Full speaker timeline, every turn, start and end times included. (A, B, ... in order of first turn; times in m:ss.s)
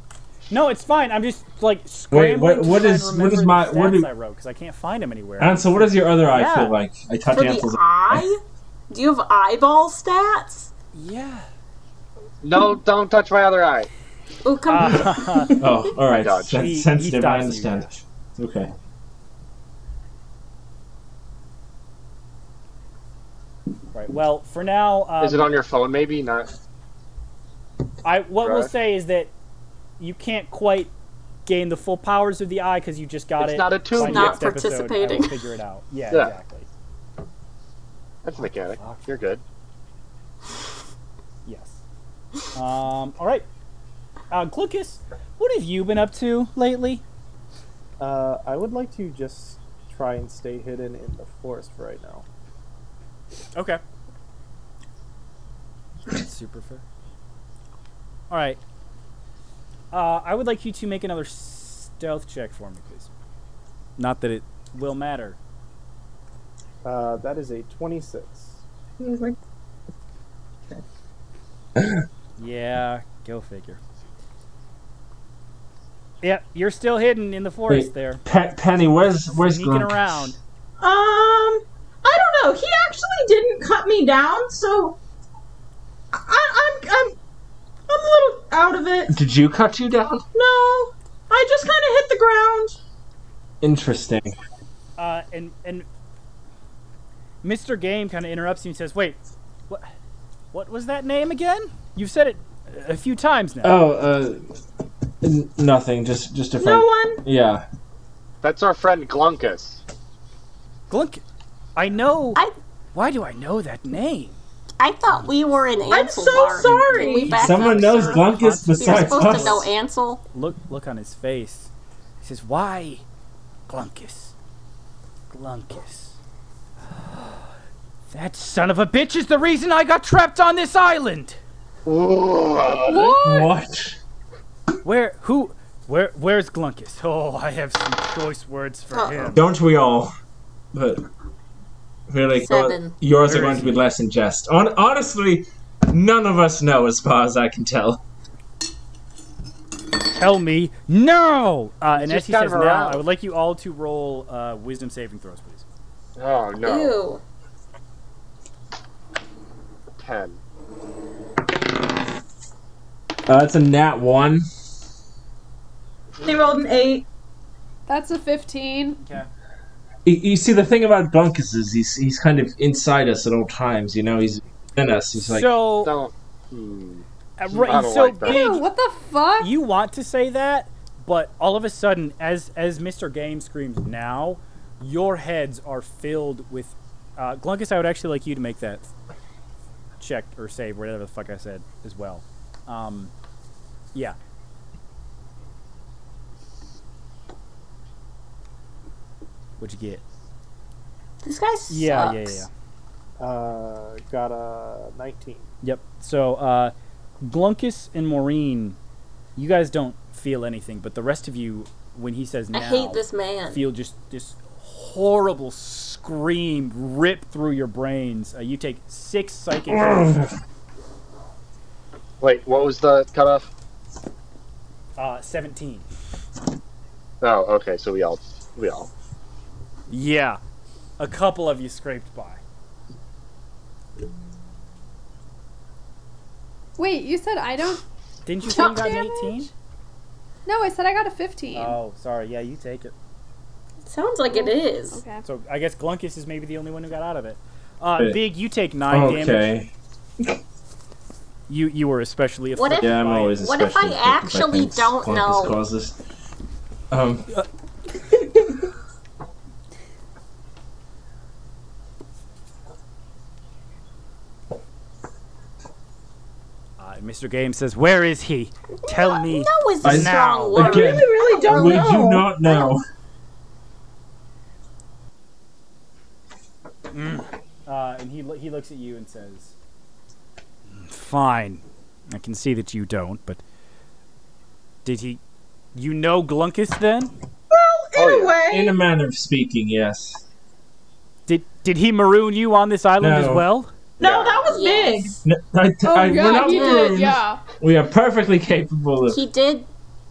0:00.5-0:06.8 A
0:02.1-0:04.1 B
0:05.4-0:08.2 B
0:07.3-0:10.7 C
0:10.9-0:11.5 A
0:12.4-0:13.9 D
0:14.4-0:15.6 C
0:14.6-0:15.6 A
0:15.6-0:18.7 B
0:16.1-0:16.6 D
0:16.5-0:17.9 A
0:23.9-0:25.6 A
0:25.2-0:26.5 D
0:28.0-0:29.3 A
0:28.4-0:28.7 D
0:30.0-0:30.9 A
0:31.4-0:36.7 A
0:33.4-0:34.4 D
0:33.9-0:35.4 C
0:38.2-0:39.4 D
0:38.8-0:39.1 A
0:41.4-0:41.8 A
0:42.5-0:43.4 A
0:44.3-0:47.0 A
0:48.0-0:52.2 E
0:53.5-0:53.8 A
0:56.1-0:56.8 A
0:58.3-0:58.6 A
0:59.9-1:03.1 A
1:04.0-1:05.4 A
1:06.8-1:08.6 E
1:09.0-1:09.4 F
1:12.4-1:13.8 A
1:16.2-1:18.2 A
1:17.7-1:20.4 B
1:19.3-1:20.4 A
1:20.8-1:25.0 F
1:26.1-1:27.2 F
1:27.9-1:29.1 F
1:29.1-1:30.2 B
1:30.3-1:32.8 F
1:33.6-1:34.3 B
1:35.0-1:35.8 A
1:37.4-1:39.9 A
1:40.5-1:43.8 A
1:43.6-1:44.4 B
1:45.2-1:47.6 B
1:46.6-1:47.2 F
1:48.4-1:49.8 D
1:50.9-1:51.2 A
1:51.8-1:52.4 A
1:52.9-1:54.4 A
1:54.8-2:00.2 C
1:55.9-1:57.4 F
1:57.0-1:59.7 A
1:57.3-1:59.7 B
2:00.3-2:01.7 A
2:02.2-2:03.0 A
2:03.7-2:04.3 A
2:05.3-2:06.2 A
2:07.1-2:07.4 A
2:08.1-2:11.4 A
2:11.8-2:13.2 D
2:12.8-2:13.5 G
2:13.2-2:14.0 B
2:14.8-2:19.4 A
2:18.9-2:19.4 C
2:19.3-2:20.1 B
2:20.7-2:21.0 B
2:22.1-2:28.0 B
2:22.3-2:23.0 C
2:23.2-2:23.8 A
2:30.1-2:35.6 A
2:32.0-2:33.0 D
2:36.2-2:37.0 D
2:36.6-2:37.2 C
2:40.0-2:40.4 D
2:43.3-2:44.4 B
2:46.2-2:47.0 F
2:47.9-2:49.0 G
2:49.0-2:49.3 A
2:50.0-2:55.5 B
2:55.1-2:55.9 A
2:55.8-2:58.6 D
2:57.4-2:58.6 A
2:58.2-2:59.5 G
2:59.4-3:08.9 A
3:10.0-3:13.1 A
3:19.6-3:20.0 A
3:21.2-3:22.4 C
3:21.7-3:22.5 A
3:23.2-3:25.5 E
3:25.6-3:28.8 A
3:29.4-3:40.3 A
3:32.5-3:33.6 C
3:39.7-3:40.2 B
3:42.2-3:43.5 D
3:45.0-3:45.8 A
3:47.2-3:48.9 D
3:49.9-3:50.4 A
3:51.0-3:52.4 A
3:56.8-3:57.8 G
3:58.2-3:59.5 A
3:58.4-3:59.5 G
3:58.5-3:58.9 C
4:00.4-4:01.8 G
4:01.5-4:02.9 A
4:03.8-4:05.0 C
4:04.3-4:05.2 G
4:05.2-4:09.5 A
4:08.9-4:09.7 B
4:11.5-4:13.4 A
4:12.6-4:15.6 C
4:12.8-4:16.0 B
4:16.9-4:17.3 B
4:26.8-4:30.8 A
4:28.8-4:31.9 C
4:29.8-4:32.8 B
4:30.6-4:32.3 F
4:32.4-4:32.7 C
4:36.9-4:39.5 A
4:40.7-4:43.4 A
4:44.8-4:45.2 A
4:45.7-4:47.1 A
4:47.5-4:48.8 F
4:47.9-4:48.4 D
4:48.5-4:50.2 B
4:51.3-4:53.7 A
4:53.0-4:53.5 B
4:54.0-4:54.5 D
4:54.0-4:55.2 F
4:54.4-4:55.2 C
4:55.2-4:59.2 B
4:55.8-4:57.4 G
4:56.4-4:56.9 F
4:59.1-4:59.7 C